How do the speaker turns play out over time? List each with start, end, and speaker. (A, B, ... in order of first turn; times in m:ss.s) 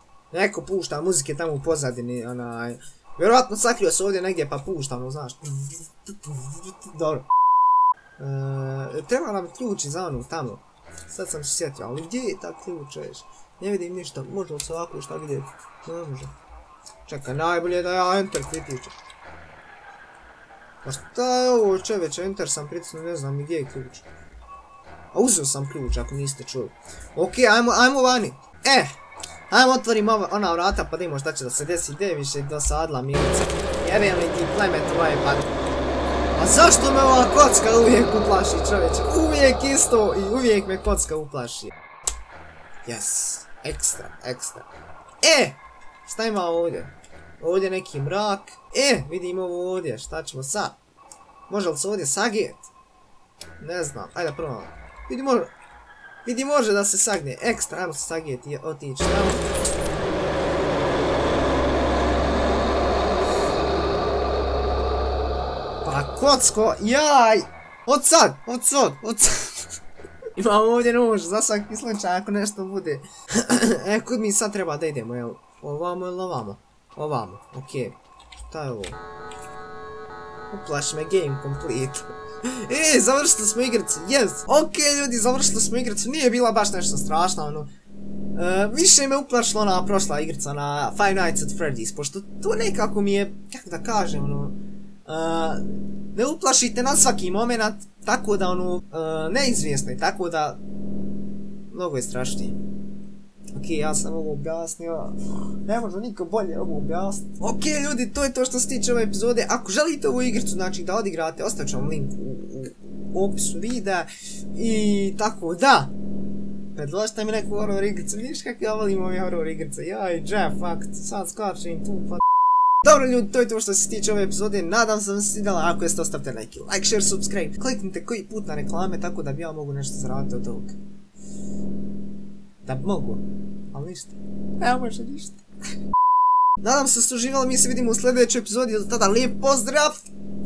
0:00.3-0:07.3 A
0:08.2-0:16.3 A
0:17.0-0:18.9 A
0:20.8-0:24.0 A
0:25.1-0:28.9 A
0:29.5-0:35.5 A
0:36.4-0:41.7 A
0:42.8-0:44.7 A
0:45.2-0:50.8 A
0:51.5-0:52.7 A
0:53.6-0:55.5 A
0:56.2-0:59.4 A
1:05.8-1:09.8 A
1:10.4-1:18.0 A
1:18.5-1:19.0 A
1:20.5-1:27.7 A
1:28.3-1:34.5 A
1:35.0-1:40.6 A
1:41.7-1:42.6 A
1:43.5-1:55.9 A
1:56.7-2:02.2 A
2:02.8-2:10.8 A
2:12.6-2:15.4 A
2:16.6-2:20.0 A